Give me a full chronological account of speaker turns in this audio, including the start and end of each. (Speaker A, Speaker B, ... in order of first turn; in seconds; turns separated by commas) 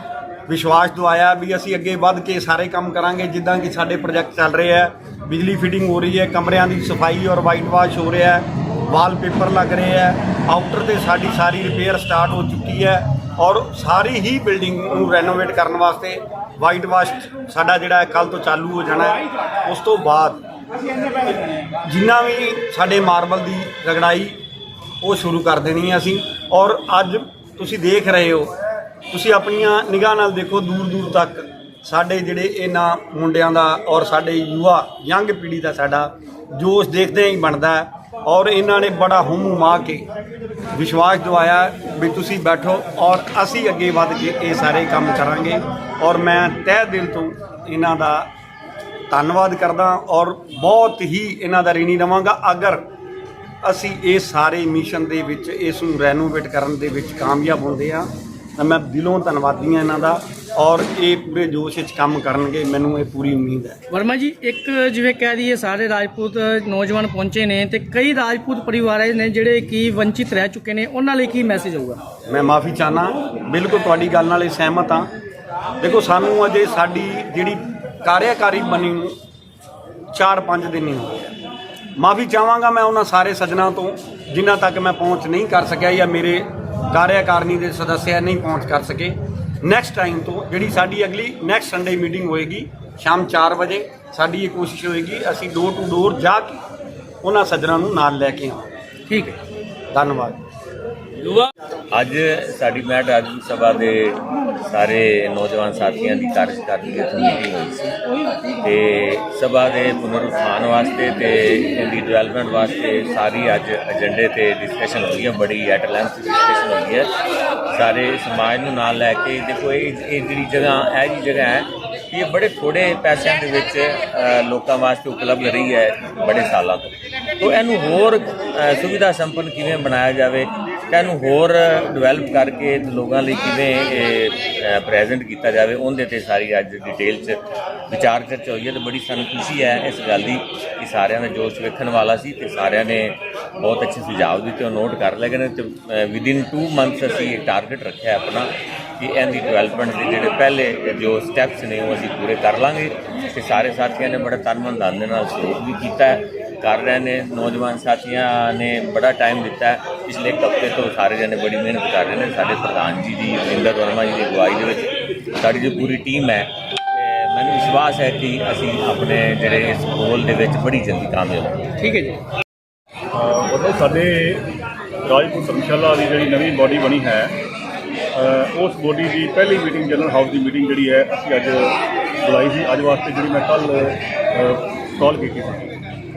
Speaker A: 0.5-20.4, Speaker A: 21.8-24.4, Speaker A: 25.0-28.6, Speaker A: 29.1-40.0, Speaker A: 40.7-48.3, Speaker A: 49.1-52.9, Speaker A: 53.6-63.8, Speaker B: 63.9-72.0, Speaker A: 72.3-75.1, Speaker A: 75.8-79.2, Speaker A: 80.1-81.3, Speaker A: 82.0-96.6, Speaker A: 97.2-98.7, Speaker B: 99.1-99.4, Speaker A: 99.9-100.4, Speaker C: 101.3-117.1, Speaker C: 117.7-171.6, Speaker B: 171.8-172.2, Speaker D: 173.1-174.5, Speaker D: 175.0-177.4, Speaker D: 178.1-185.8